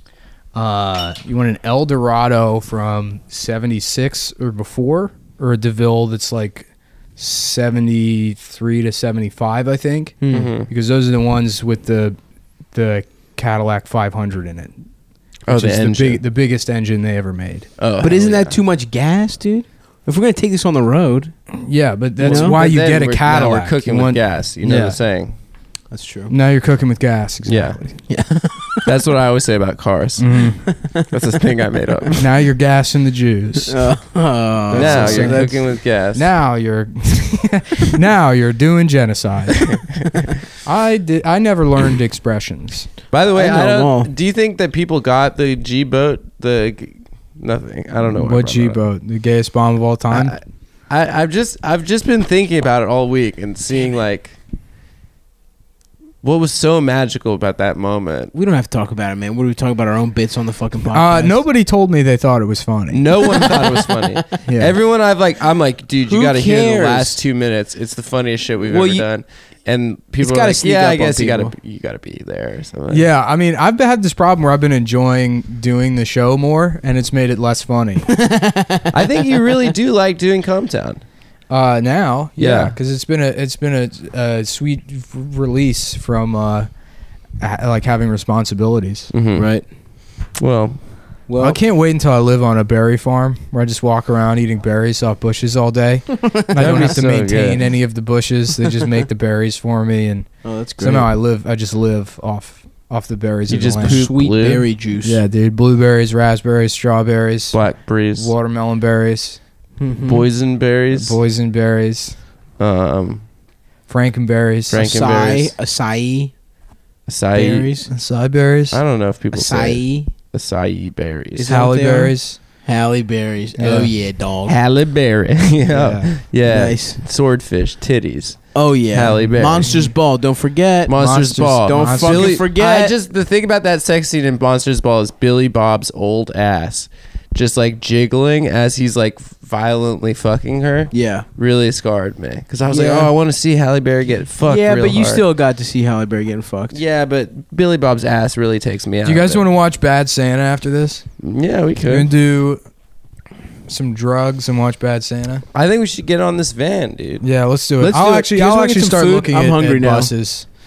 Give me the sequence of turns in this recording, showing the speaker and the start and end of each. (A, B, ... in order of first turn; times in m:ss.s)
0:00.5-0:12.2 A
0:10.2-0:10.5 B
0:10.3-0:10.7 C
0:12.7-0:14.7 A
0:15.4-0:16.2 C
0:15.5-0:17.7 A
0:17.8-0:18.6 C
0:18.0-0:21.3 B
0:21.6-0:25.0 A
0:22.2-0:25.3 C
0:22.2-0:22.6 B
0:25.9-0:26.3 B
0:26.3-0:28.0 A
0:27.4-0:28.0 C
0:28.1-0:28.9 B
0:28.8-0:32.3 C
0:30.2-0:30.6 A
0:32.2-0:33.8 A
0:33.7-0:35.6 B
0:34.7-0:39.8 A
0:34.7-0:36.2 C
0:40.6-0:42.9 A
0:43.1-0:48.8 C
0:43.3-0:44.1 B
0:48.1-0:50.4 A
0:50.1-0:54.3 C
0:56.2-0:58.3 C
0:58.3-1:01.4 B
1:00.9-1:03.0 A
1:02.9-1:13.0 C
1:03.4-1:04.0 B
1:04.4-1:04.7 A
1:06.1-1:07.2 B
1:08.7-1:09.0 B
1:10.2-1:11.5 B
1:12.9-1:18.1 A
1:18.1-1:19.0 B
1:18.9-1:21.0 C
1:21.5-1:26.7 A
1:22.4-1:22.7 C
1:27.4-1:29.1 A
1:29.1-1:29.7 C
1:29.3-1:29.7 B
1:30.3-1:30.8 C
1:31.3-1:31.6 B
1:31.4-1:44.0 A
1:36.5-1:37.6 C
1:40.4-1:41.1 B
1:43.5-1:44.7 C
1:43.8-1:45.2 B
1:45.0-1:49.4 A
1:47.5-1:48.3 C
1:49.8-1:50.2 B
1:50.0-1:51.2 C
1:50.9-1:52.2 A
1:52.6-1:53.2 C
1:53.9-1:54.9 A
1:54.7-1:55.5 C
1:54.8-1:56.3 B
1:57.1-1:57.7 C
1:57.3-1:57.9 B
1:57.9-1:58.8 A
1:58.7-2:01.5 C
1:59.3-2:00.1 B
2:01.4-2:04.5 B
2:01.4-2:02.4 A
2:03.6-2:03.9 A
2:04.4-2:09.9 C
2:05.7-2:06.1 A
2:06.4-2:07.0 B
2:08.5-2:10.9 B
2:10.9-2:25.2 C
2:10.9-2:12.4 A
2:11.6-2:12.9 B
2:20.9-2:21.2 B
2:22.7-2:23.1 B
2:24.4-2:26.8 B
2:26.7-2:29.4 C
2:29.0-2:31.1 A
2:31.2-2:32.1 C
2:31.8-2:32.6 A
2:33.7-2:35.4 A
2:35.5-2:37.2 C
2:37.2-2:40.5 A
2:37.8-2:40.1 B